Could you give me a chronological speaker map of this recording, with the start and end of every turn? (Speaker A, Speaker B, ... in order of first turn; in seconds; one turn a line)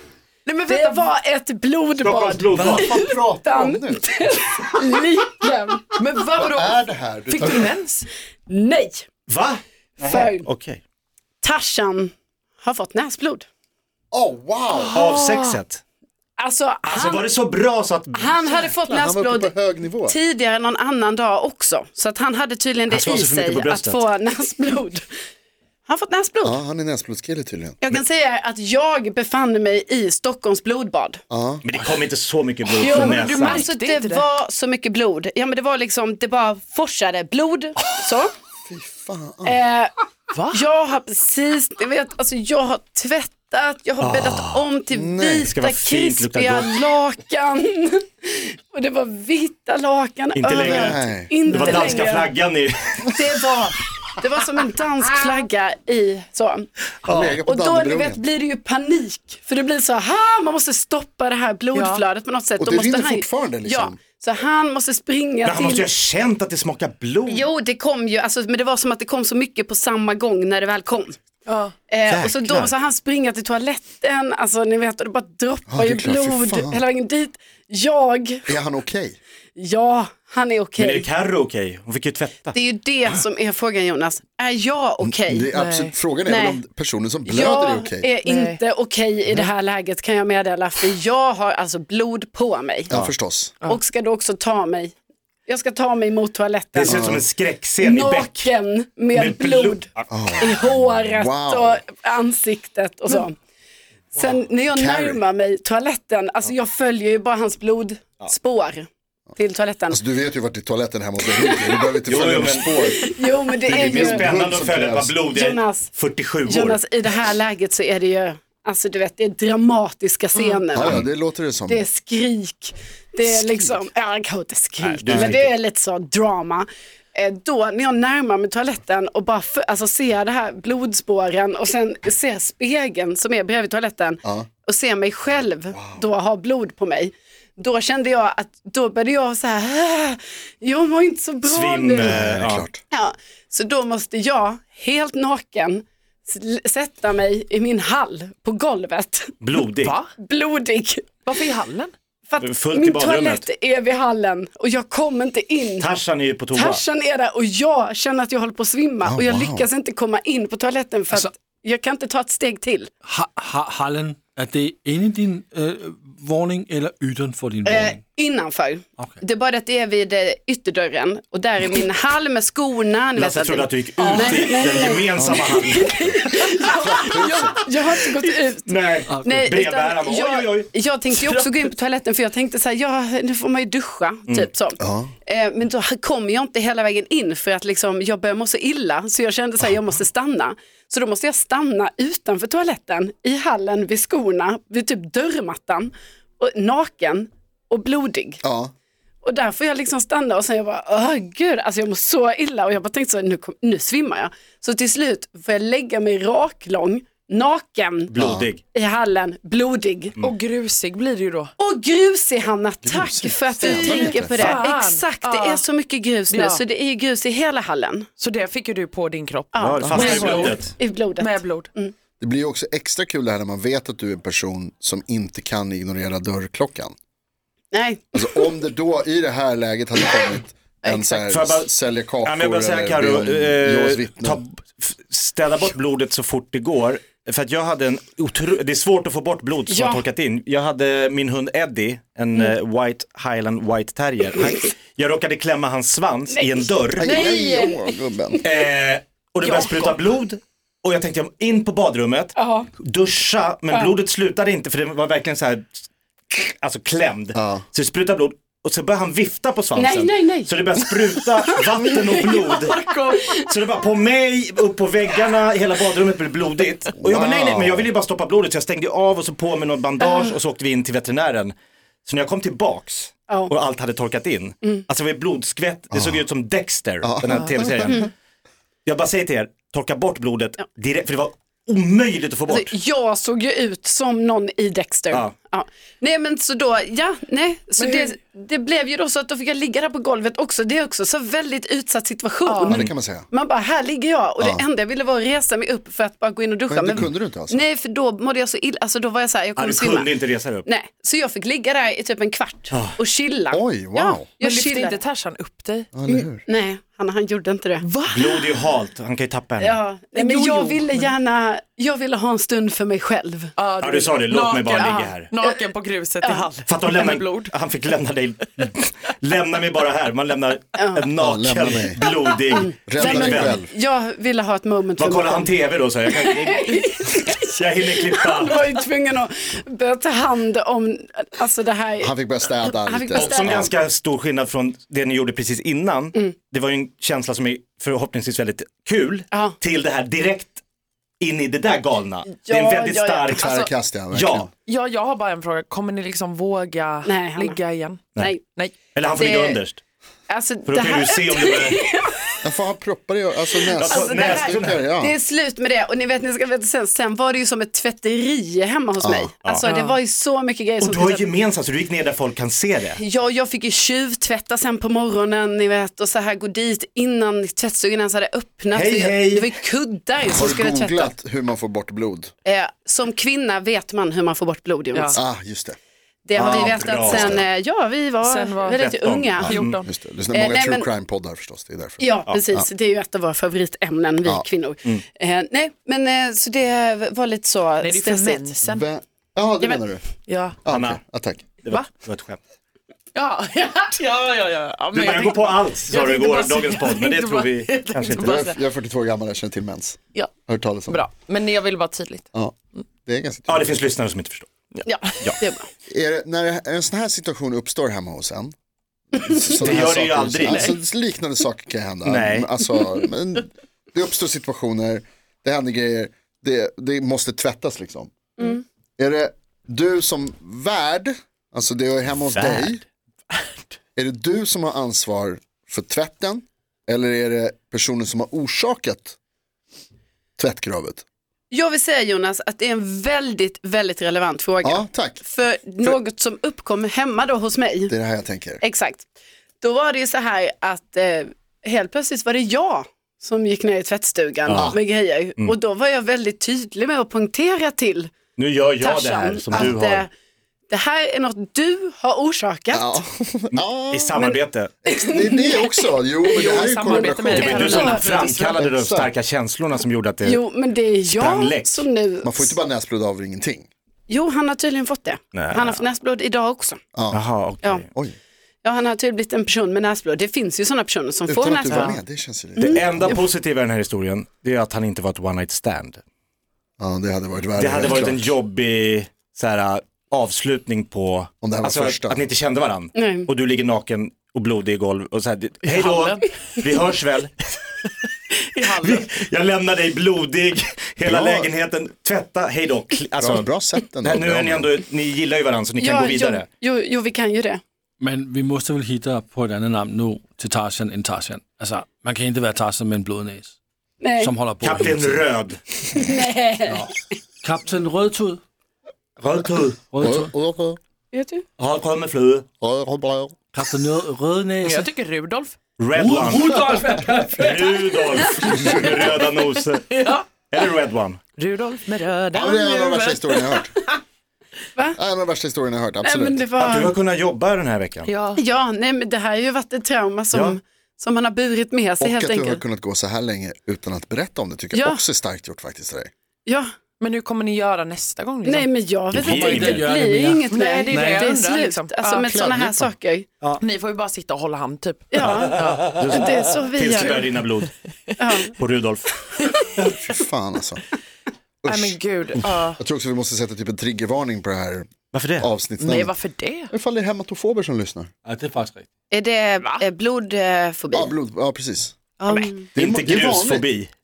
Speaker A: 0.5-1.1
Speaker B: 0.7-6.0
Speaker C: 2.0-2.9
Speaker D: 2.5-4.1
Speaker A: 6.0-8.1
Speaker D: 6.5-7.7
Speaker B: 8.5-9.1
Speaker C: 9.3-10.8
Speaker B: 10.0-10.5
Speaker B: 11.4-13.5
Speaker D: 14.1-15.0
Speaker A: 14.8-15.6
Speaker C: 14.9-15.8
Speaker B: 16.4-17.3
Speaker C: 16.9-18.4
Speaker B: 18.1-19.5
Speaker D: 18.9-20.2
Speaker B: 20.1-25.1
Speaker C: 22.9-24.1
Speaker B: 25.9-26.6
Speaker D: 26.4-27.8
Speaker B: 27.8-31.2
Speaker D: 31.3-31.6
Speaker C: 31.6-33.7
Speaker A: 32.7-34.2
Speaker B: 32.8-38.3
Speaker D: 38.7-39.6
Speaker B: 39.5-39.9
Speaker A: 40.3-40.6
Speaker B: 40.5-52.3
Speaker C: 44.0-44.6
Speaker D: 44.9-45.5
Speaker C: 45.5-46.7
Speaker C: 50.4-53.3
Speaker D: 50.6-51.7
Speaker B: 53.1-56.7
Speaker C: 57.0-57.4
Speaker D: 57.0-58.2
Speaker B: 57.5-65.9
Speaker A: 61.7-62.0
Speaker D: 62.6-64.0
Speaker C: 65.5-67.5
Speaker B: 67.3-71.2
Speaker A: 71.5-71.8
Speaker B: 71.9-78.5
Speaker C: 72.1-72.7
Speaker D: 75.7-76.8
Speaker D: 78.5-79.2
Speaker B: 79.6-81.1
Speaker C: 80.8-82.6
Speaker B: 82.5-85.5
Speaker D: 85.0-88.1
Speaker A: 85.5-85.9
Speaker B: 86.2-86.6
Speaker B: 87.3-92.9
Speaker A: 88.2-88.6
Speaker D: 92.9-93.5
Speaker B: 93.7-94.9
Speaker B: 95.5-97.1
Speaker C: 96.8-98.5
Speaker D: 96.8-97.2
Speaker B: 97.8-99.8
Speaker C: 99.1-100.1
Speaker D: 100.1-101.8
Speaker B: 100.4-103.4
Speaker B: 104.1-110.0
Speaker D: 104.7-105.2
Speaker D: 109.9-113.1
Speaker B: 111.4-111.7
Speaker C: 112.1-113.1
Speaker B: 112.8-114.3
Speaker D: 113.7-115.2
Speaker C: 113.7-116.8
Speaker B: 115.3-115.9
Speaker B: 116.5-121.0
Speaker A: 120.4-120.6
Speaker D: 120.7-121.9
Speaker B: 121.7-142.2
Speaker D: 123.2-123.8
Speaker C: 124.8-125.5
Speaker D: 125.1-125.3
Speaker D: 135.7-136.0
Speaker C: 141.4-142.7
Speaker D: 142.1-142.8
Speaker B: 142.9-149.4
Speaker C: 149.4-150.0
Speaker A: 149.8-150.1
Speaker B: 150.2-151.4
Speaker A: 151.3-151.9
Speaker B: 152.3-155.9
Speaker C: 152.4-153.4
Speaker C: 155.8-156.8
Speaker B: 156.5-162.9
Speaker D: 159.0-159.7
Speaker E: 163.1-168.0
Speaker B: 167.7-198.4
Speaker C: 173.2-175.9
Speaker A: 174.0-174.7
Speaker D: 175.2-176.0
Speaker A: 176.4-177.7
Speaker D: 176.8-177.6
Speaker C: 178.7-180.7
Speaker E: 179.1-179.5
Speaker D: 184.8-185.1
Speaker D: 198.4-198.7
Speaker B: 199.2-208.1
Speaker C: 208.1-208.6
Speaker D: 208.2-208.5
Speaker B: 208.7-210.2
Speaker A: 210.2-211.5
Speaker B: 211.6-218.1
Speaker D: 212.8-214.5
Speaker A: 213.6-215.7
Speaker A: 216.3-216.6
Speaker A: 218.2-220.6
Speaker B: 219.5-221.9
Speaker C: 219.6-220.7
Speaker D: 219.8-220.2
Speaker A: 221.2-221.7
Speaker D: 222.2-226.9
Speaker B: 227.7-228.5
Speaker D: 228.1-234.4
Speaker B: 230.8-231.3
Speaker C: 231.3-231.7
Speaker C: 232.2-247.2
Speaker B: 239.7-240.1
Speaker B: 246.3-248.4
Speaker D: 247.0-248.4
Speaker C: 248.4-271.5
Speaker A: 249.4-250.0
Speaker B: 252.4-252.7
Speaker D: 257.4-257.6
Speaker B: 259.8-260.6
Speaker B: 261.5-262.5
Speaker A: 262.3-263.3
Speaker D: 267.0-267.9
Speaker C: 272.1-278.1
Speaker D: 275.9-276.2
Speaker D: 277.0-277.5
Speaker C: 278.9-282.7
Speaker B: 282.5-300.1
Speaker A: 287.8-288.1
Speaker A: 292.5-292.8
Speaker D: 292.7-293.3
Speaker D: 296.7-297.6
Speaker C: 299.6-300.7
Speaker B: 300.6-305.0
Speaker C: 302.7-303.0
Speaker D: 303.5-304.3
Speaker A: 304.4-305.9
Speaker D: 305.9-306.4
Speaker B: 306.1-307.9
Speaker A: 307.8-308.7
Speaker C: 308.1-309.8
Speaker B: 309.6-313.5
Speaker A: 310.1-311.1
Speaker A: 313.6-317.5
Speaker C: 313.8-315.3
Speaker B: 314.8-315.6
Speaker C: 316.7-323.6
Speaker B: 320.8-321.0
Speaker D: 321.2-322.0
Speaker B: 322.6-325.5
Speaker D: 322.9-323.7
Speaker C: 325.0-326.8
Speaker B: 326.1-333.7
Speaker C: 327.4-328.6
Speaker D: 332.0-333.7
Speaker C: 333.1-340.6
Speaker B: 339.3-339.6
Speaker C: 341.2-343.5
Speaker B: 342.3-343.7
Speaker D: 343.4-344.5
Speaker C: 344.1-344.5
Speaker A: 344.7-348.8
Speaker B: 347.0-347.6
Speaker B: 348.2-348.4
Speaker C: 348.9-349.8
Speaker B: 349.1-349.6
Speaker B: 350.3-352.4
Speaker C: 350.7-351.8
Speaker D: 352.4-355.2
Speaker B: 353.7-361.3
Speaker C: 353.8-354.8
Speaker D: 359.0-359.3
Speaker A: 359.6-360.0
Speaker C: 360.8-363.0
Speaker B: 363.0-371.1
Speaker C: 368.7-369.5
Speaker D: 370.3-372.3
Speaker B: 372.4-375.2
Speaker D: 375.1-375.8
Speaker B: 376.3-379.6
Speaker D: 376.3-377.4
Speaker C: 376.4-377.4
Speaker A: 378.2-378.8
Speaker C: 378.7-379.8
Speaker D: 379.4-382.6
Speaker A: 379.5-379.9
Speaker B: 380.3-380.9
Speaker B: 382.0-388.5
Speaker A: 387.8-388.9
Speaker D: 388.7-390.0
Speaker A: 390.3-390.6
Speaker D: 390.6-391.5
Speaker C: 390.7-391.0
Speaker C: 391.6-392.4
Speaker A: 393.1-398.6
Speaker C: 394.9-398.5
Speaker D: 398.2-401.0
Speaker A: 400.9-402.3
Speaker D: 402.3-403.8
Speaker C: 403.5-404.5
Speaker A: 404.8-405.3
Speaker B: 404.9-405.7
Speaker D: 405.9-408.5
Speaker D: 409.1-418.1
Speaker C: 409.6-410.8
Speaker A: 410.4-410.8
Speaker C: 412.1-412.5
Speaker D: 419.0-422.8
Speaker C: 422.3-422.8
Speaker D: 424.0-429.2
Speaker D: 430.4-431.0
Speaker B: 431.5-437.9
Speaker D: 434.6-435.2
Speaker D: 437.9-438.6
Speaker B: 438.6-439.1
Speaker B: 439.6-448.1
Speaker C: 444.5-444.8
Speaker D: 444.5-444.8
Speaker C: 448.4-450.1
Speaker B: 448.8-450.1
Speaker B: 450.7-453.0
Speaker D: 452.7-454.2
Speaker C: 453.5-454.7
Speaker B: 454.2-455.9
Speaker D: 454.9-457.8
Speaker A: 456.3-458.6
Speaker B: 456.9-458.0
Speaker C: 457.4-460.4
Speaker D: 458.4-459.1
Speaker B: 460.2-462.6
Speaker C: 461.1-461.9
Speaker D: 462.2-463.7
Speaker B: 464.1-466.8
Speaker C: 465.3-465.8
Speaker D: 466.9-467.2
Speaker C: 467.1-467.9
Speaker B: 468.6-472.0
Speaker D: 471.3-473.2
Speaker B: 472.6-473.2
Speaker C: 472.6-476.0
Speaker D: 476.8-478.4
Speaker C: 477.6-487.6
Speaker D: 481.4-482.3
Speaker B: 482.9-483.3
Speaker A: 485.6-486.3
Speaker A: 487.9-489.2
Speaker C: 488.7-493.5
Speaker D: 491.1-491.5
Speaker D: 493.2-494.8
Speaker C: 494.0-496.5
Speaker B: 495.8-497.6
Speaker E: 498.0-503.6
Speaker B: 504.0-504.3
Speaker E: 504.2-505.3
Speaker C: 504.6-505.6
Speaker B: 505.9-506.9
Speaker E: 507.4-508.4
Speaker C: 509.2-509.8
Speaker E: 509.9-510.3
Speaker D: 510.0-510.8
Speaker B: 511.1-511.4
Speaker C: 511.6-512.5
Speaker D: 512.6-513.4
Speaker E: 513.5-514.9
Speaker A: 514.6-515.6
Speaker C: 515.8-516.8
Speaker E: 516.0-518.7
Speaker C: 517.4-521.2
Speaker D: 518.6-518.9
Speaker A: 519.3-520.3
Speaker A: 521.4-523.9
Speaker D: 522.3-523.7
Speaker D: 525.0-526.5
Speaker B: 526.0-527.0
Speaker C: 526.6-528.1
Speaker A: 528.1-528.4
Speaker B: 528.4-532.6
Speaker C: 530.3-530.6
Speaker D: 532.0-536.1
Speaker B: 534.7-535.0
Speaker B: 536.5-536.7
Speaker A: 537.0-538.7
Speaker B: 538.4-543.3
Speaker C: 539.1-539.9
Speaker E: 539.2-541.3
Speaker A: 540.5-542.3
Speaker D: 542.3-542.9
Speaker A: 543.6-546.1
Speaker B: 545.1-547.2
Speaker C: 545.2-547.7
Speaker B: 548.2-548.5
Speaker C: 548.5-549.1
Speaker A: 549.5-549.9
Speaker D: 549.9-550.8
Speaker D: 551.6-552.0
Speaker A: 551.7-552.8
Speaker D: 552.8-556.2
Speaker C: 555.1-555.5
Speaker A: 555.8-556.7
Speaker D: 556.7-558.1
Speaker E: 558.3-558.9
Speaker B: 559.1-561.1
Speaker D: 560.9-562.0
Speaker B: 562.2-562.7
Speaker A: 562.3-562.5
Speaker D: 562.7-563.7
Speaker C: 562.8-563.9